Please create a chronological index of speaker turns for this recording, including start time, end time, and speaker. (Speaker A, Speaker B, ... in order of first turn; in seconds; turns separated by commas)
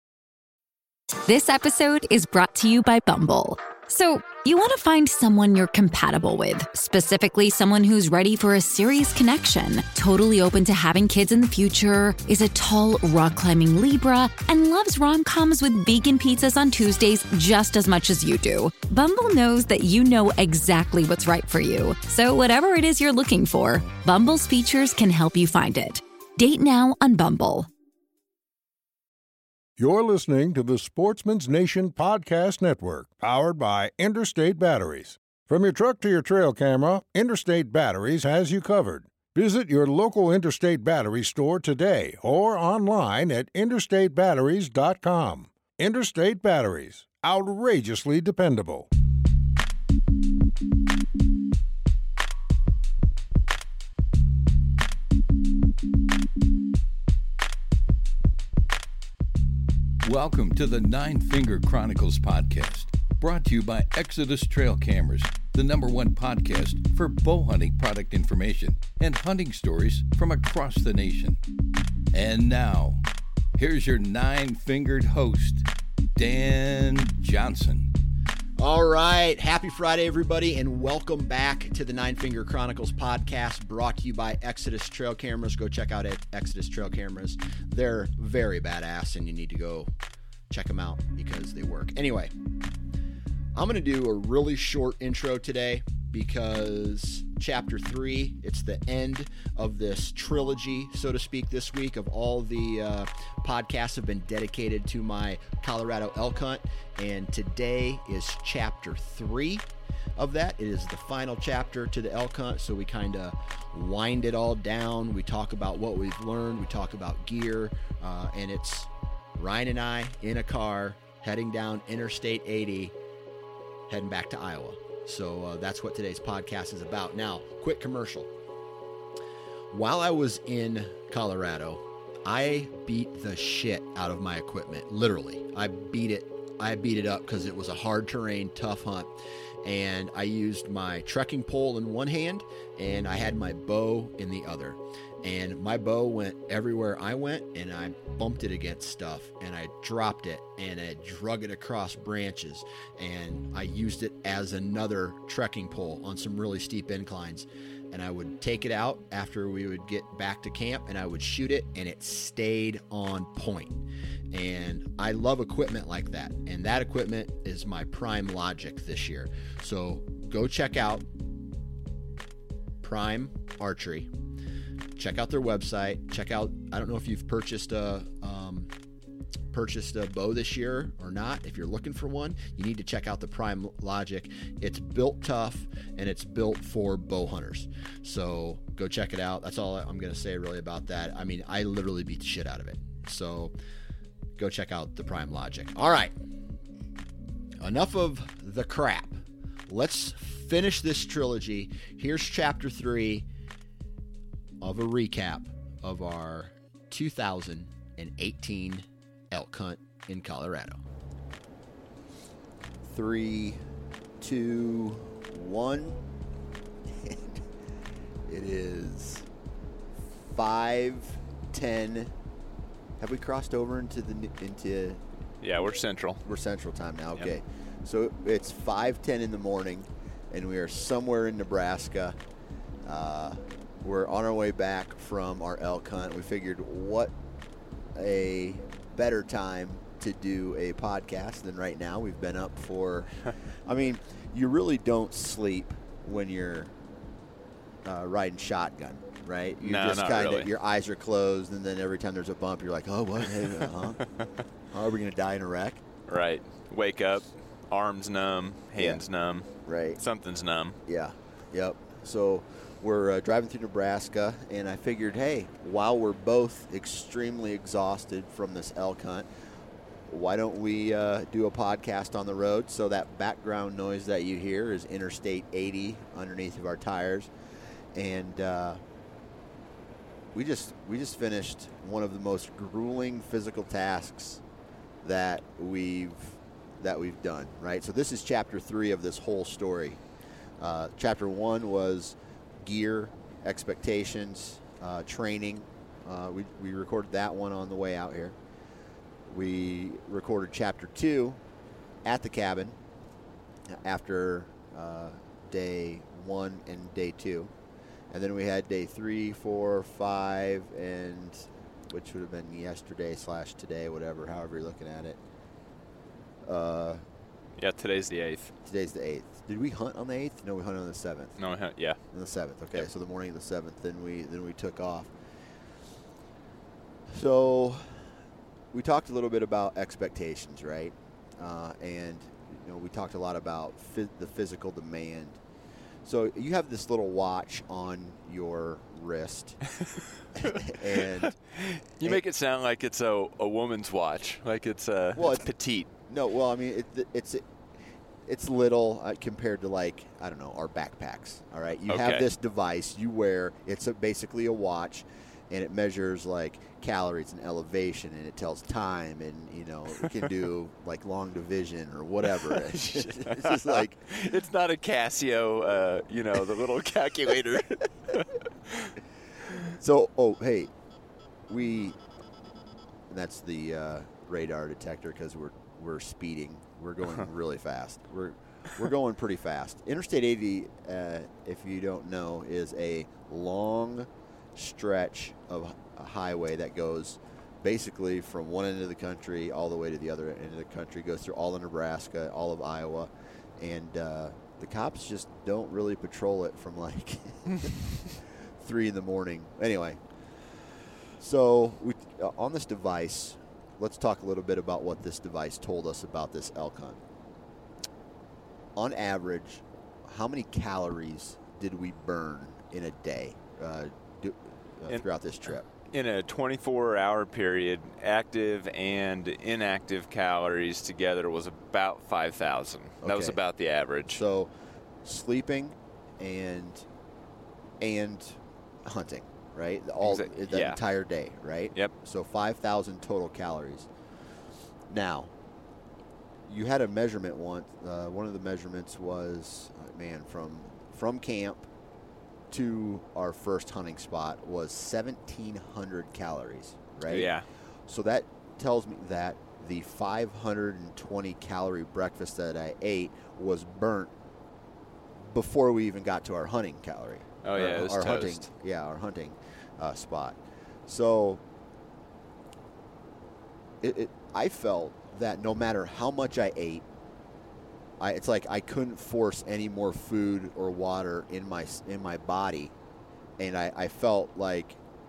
Speaker A: 1.2-27.7, Speaker B: 29.8-48.9, Speaker C: 60.0-71.4, Speaker C: 72.1-73.0, Speaker C: 73.5-77.9, Speaker D: 78.6-89.9, Speaker D: 90.5-92.3, Speaker D: 93.5-109.6, Speaker D: 110.2-122.9, Speaker D: 123.9-128.3, Speaker D: 129.7-171.1, Speaker D: 172.8-174.1, Speaker D: 174.9-178.7, Speaker D: 179.5-193.5, Speaker D: 194.4-196.1, Speaker D: 197.6-203.3, Speaker D: 204.6-210.8, Speaker D: 212.9-213.6, Speaker D: 214.2-216.0, Speaker D: 217.0-217.4, Speaker D: 218.3-219.2, Speaker D: 220.2-222.1, Speaker D: 223.0-225.0, Speaker E: 225.4-226.2, Speaker D: 226.2-232.2, Speaker D: 232.8-237.1, Speaker D: 237.9-246.7, Speaker D: 247.8-254.0, Speaker E: 249.6-250.5, Speaker D: 254.7-255.8, Speaker E: 256.1-260.8, Speaker D: 258.8-259.0, Speaker D: 259.6-260.0, Speaker D: 260.9-269.3, Speaker D: 270.1-277.3, Speaker D: 277.9-278.8, Speaker D: 280.3-284.4, Speaker D: 285.0-290.0, Speaker D: 290.6-298.4, Speaker D: 299.3-301.4, Speaker D: 302.0-302.8, Speaker D: 303.7-307.5, Speaker D: 308.1-315.2, Speaker D: 316.4-317.0, Speaker E: 317.6-318.5, Speaker D: 318.6-321.4, Speaker E: 321.4-322.0, Speaker D: 322.1-325.1, Speaker D: 327.1-328.1, Speaker D: 328.7-335.4, Speaker D: 336.0-339.6, Speaker D: 340.4-341.4, Speaker E: 341.5-345.9, Speaker D: 345.1-345.5, Speaker D: 346.0-347.4, Speaker D: 348.3-364.1, Speaker E: 351.9-352.3, Speaker E: 362.2-368.9, Speaker D: 369.7-370.7, Speaker D: 371.5-372.0, Speaker D: 373.1-400.0, Speaker D: 401.2-407.0, Speaker D: 408.8-415.6, Speaker E: 415.9-424.2, Speaker D: 423.0-423.4, Speaker D: 424.1-424.5, Speaker D: 425.0-426.9, Speaker D: 427.8-433.9, Speaker E: 430.0-430.8, Speaker D: 434.9-435.3, Speaker D: 436.5-441.7, Speaker D: 442.5-447.3, Speaker E: 447.1-447.4, Speaker D: 447.9-454.1, Speaker D: 455.3-461.4, Speaker E: 457.4-458.5, Speaker D: 463.8-466.8, Speaker D: 468.0-472.7, Speaker D: 473.4-474.8